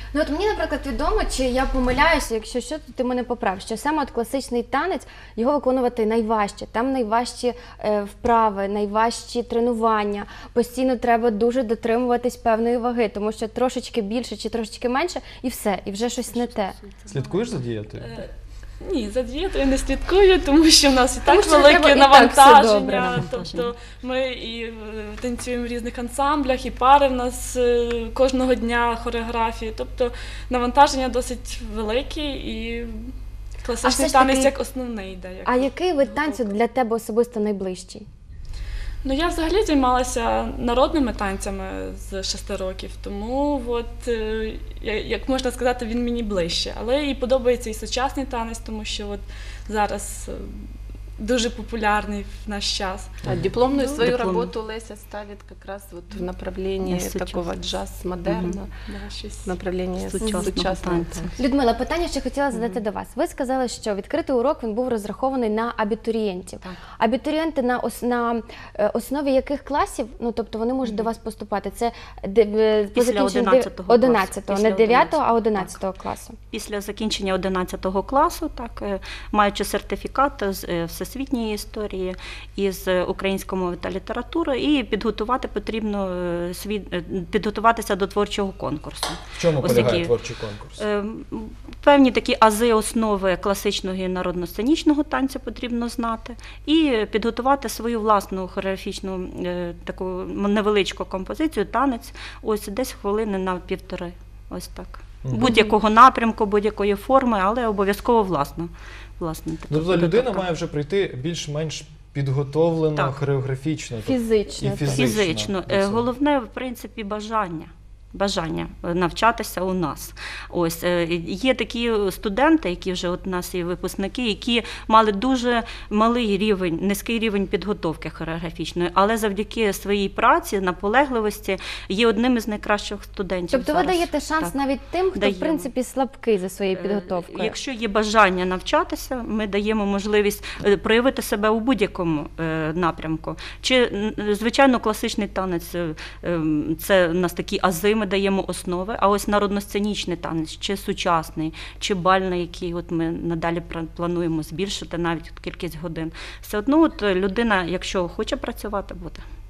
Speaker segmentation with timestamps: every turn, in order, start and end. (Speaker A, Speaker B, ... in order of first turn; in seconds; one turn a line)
Speaker A: 0.1-16.8
Speaker B: 17.1-18.2
Speaker C: 18.0-18.3
Speaker C: 18.8-36.5
Speaker A: 21.3-23.2
Speaker D: 23.1-23.7
Speaker A: 33.8-34.5
Speaker A: 35.5-38.0
Speaker C: 39.0-53.2
Speaker E: 53.3-58.7
Speaker D: 53.7-54.5
Speaker D: 56.8-57.6
Speaker D: 58.3-58.5
Speaker C: 58.8-59.5
Speaker E: 59.5-61.3
Speaker D: 60.0-61.3
Speaker A: 61.4-76.4
Speaker D: 72.9-75.8
Speaker D: 76.5-90.1
Speaker B: 89.4-90.8
Speaker D: 90.8-110.5
Speaker B: 105.2-105.5
Speaker A: 105.5-105.7
Speaker B: 109.7-116.1
Speaker A: 114.0-115.1
Speaker D: 114.9-134.6
Speaker A: 133.5-137.6
Speaker D: 135.1-135.7
Speaker D: 136.7-159.2